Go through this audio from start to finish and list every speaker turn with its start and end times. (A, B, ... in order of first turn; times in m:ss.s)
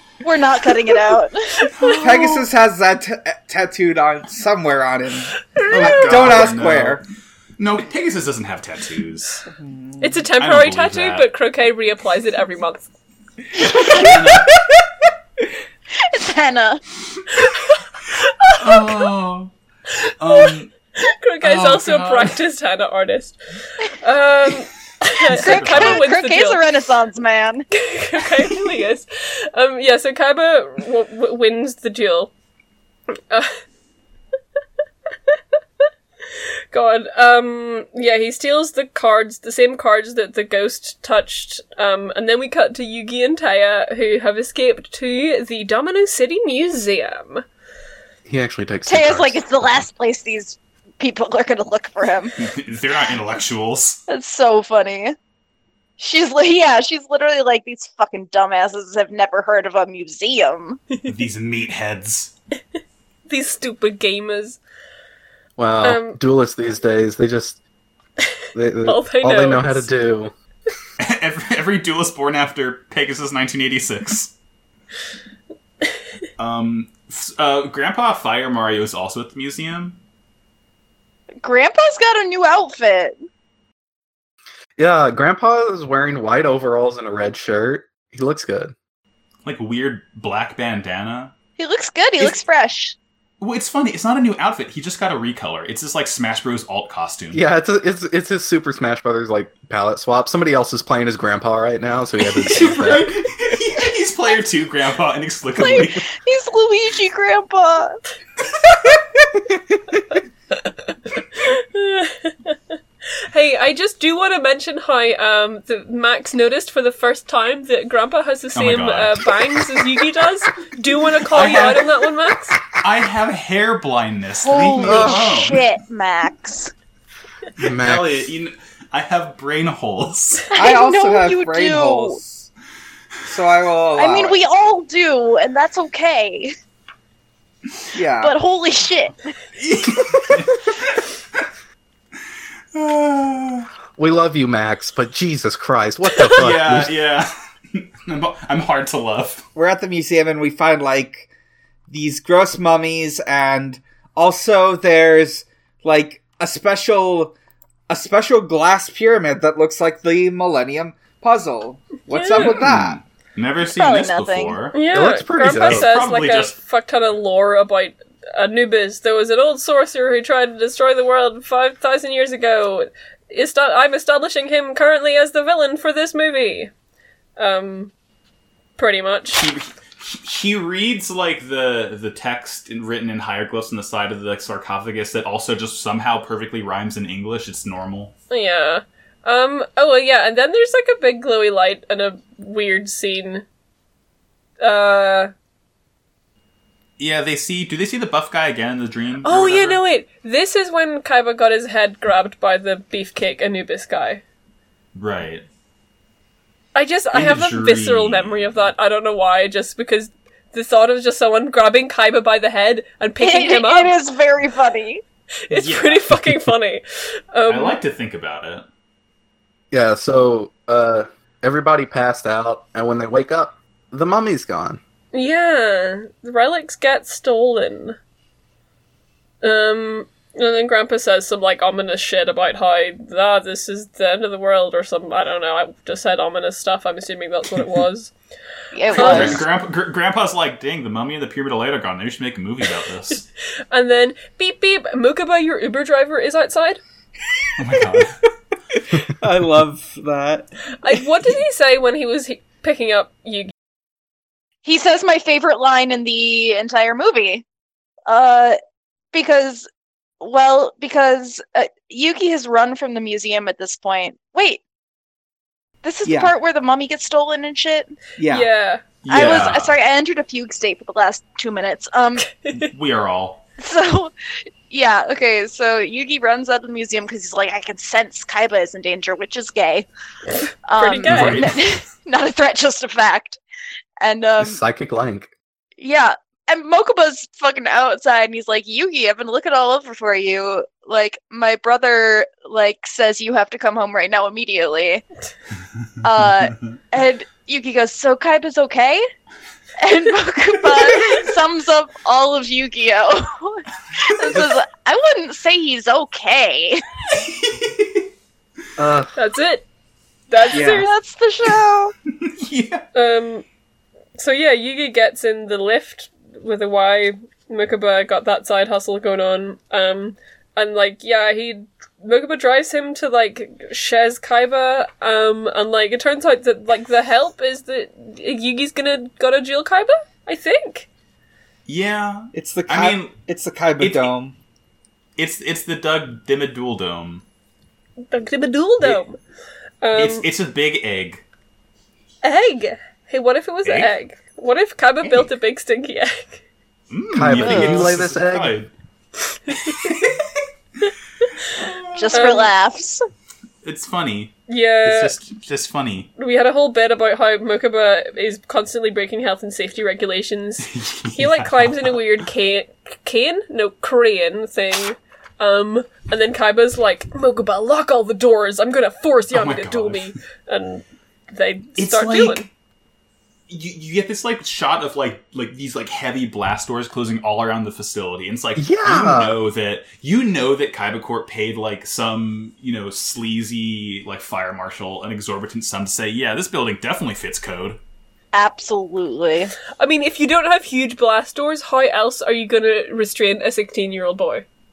0:00.2-0:01.6 A
0:01.6-0:02.0 B
0:01.7-0:02.4 C
0:02.0-0:07.0 D
0:05.5-0:06.4 B
0:05.7-0:07.0 C
0:07.6-0:09.4 C
0:09.5-0:10.2 D
0:10.0-0:12.9 B
0:10.4-0:11.3 C
0:13.5-0:14.6 C
0:15.9-0:16.8 A
0:17.3-0:19.0 B
0:18.6-0:19.5 C
0:20.0-0:23.4 B
0:20.2-0:20.7 C
0:21.4-0:22.4 C
0:24.0-0:26.6 B
0:25.3-0:27.7 A
0:25.3-0:26.0 C
0:27.7-0:32.3 B
0:36.7-0:47.4 B
0:48.2-0:49.8 E
0:48.9-0:52.4 A
0:52.4-0:54.0 C
0:54.1-0:55.1 A
0:56.0-1:00.8 A
1:01.0-1:02.3 C
1:03.3-1:04.6 B
1:05.6-1:07.6 E
1:05.8-1:06.2 B
1:08.5-1:10.3 E
1:08.8-1:09.9 B
1:11.0-1:14.3 C
1:16.4-1:20.0 C
1:21.4-1:23.2 A
1:24.8-1:28.7 E
1:29.4-1:31.3 C
1:31.6-1:33.0 A
1:33.4-1:37.4 C
1:37.3-1:43.1 E
1:42.3-1:46.0 C
1:45.6-1:48.0 A
1:50.6-1:52.6 B
1:53.3-2:02.6 B
1:58.5-1:59.3 C
2:01.3-2:01.9 C
2:02.7-2:05.6 C
2:04.4-2:06.7 A
2:04.8-2:05.3 E
2:07.6-2:08.3 E
2:07.6-2:10.5 C
2:10.5-2:12.5 D
2:10.5-2:12.2 A
2:13.2-2:14.4 D
2:14.0-2:16.5 A
2:17.9-2:18.3 D
2:18.2-2:19.3 A
2:19.6-2:21.4 C
2:22.7-2:23.7 C
2:24.0-2:26.9 E
2:26.2-2:29.4 C
2:29.5-2:31.3 D
2:31.9-2:37.3 D
2:37.9-2:43.0 D
2:42.1-2:42.6 B
2:42.3-2:44.7 C
2:43.7-2:44.6 A
2:44.7-2:56.7 B
2:44.9-2:45.9 E
2:45.5-2:46.6 C
2:57.4-2:57.9 B
2:58.8-2:59.4 B
2:59.3-3:08.1 C
3:08.3-3:13.4 B
3:14.6-3:15.3 B
3:17.0-3:19.8 C
3:19.2-3:24.2 B
3:24.9-3:25.4 C
3:26.7-3:34.0 B
3:27.1-3:28.7 C
3:33.2-3:35.0 A
3:35.5-3:37.8 B
3:35.5-3:36.1 C
3:37.5-3:38.6 C
3:39.7-3:44.8 E
3:45.1-3:48.0 B
3:49.4-3:58.1 B
3:58.7-3:59.4 A
3:58.9-3:59.4 B
3:58.9-4:03.2 C
4:03.7-4:06.8 B
4:07.6-4:08.2 C
4:08.7-4:10.5 D
4:10.8-4:13.5 B
4:14.6-4:17.4 A
4:18.1-4:18.6 A
4:19.1-4:19.7 A
4:20.2-4:24.6 A
4:25.8-4:28.0 A
4:26.0-4:26.3 D
4:28.2-4:28.5 D
4:28.3-4:28.8 B
4:29.0-4:29.8 C
4:29.1-4:32.3 A
4:32.3-4:32.7 B
4:32.5-4:33.4 C
4:33.6-4:34.1 A
4:34.7-4:39.9 A
4:40.6-4:43.4 A
4:40.8-4:41.6 B
4:41.0-4:41.5 C
4:44.0-4:44.6 A
4:44.4-4:45.3 E
4:45.8-4:55.0 A
4:56.0-4:59.0 A
4:59.8-5:06.8 A
5:07.2-5:08.0 C
5:08.8-5:09.1 E
5:09.2-5:09.6 B
5:10.3-5:10.9 B
5:10.5-5:10.9 D
5:10.6-5:11.9 A
5:12.2-5:12.8 C
5:12.9-5:13.4 B
5:14.2-5:30.9 B
5:31.6-5:33.2 C
5:32.3-5:34.3 D
5:33.8-5:34.1 C
5:35.2-5:37.2 C
5:38.0-5:39.2 B
5:39.8-5:40.2 B
5:40.0-5:41.2 C
5:42.2-5:46.4 B
5:43.6-5:43.9 C
5:46.9-5:48.7 C
5:47.1-5:48.5 E
5:47.4-5:47.9 A
5:49.6-5:50.4 C
5:51.5-5:52.2 C
5:51.9-5:53.0 A
5:52.1-5:52.5 B
5:53.6-5:56.1 C
5:54.5-5:55.1 B
5:56.2-6:12.4 B
6:00.6-6:02.0 C
6:09.3-6:10.1 C
6:11.8-6:12.5 C
6:13.5-6:27.8 C
6:18.6-6:19.4 E
6:28.3-6:29.5 A
6:29.8-6:34.4 B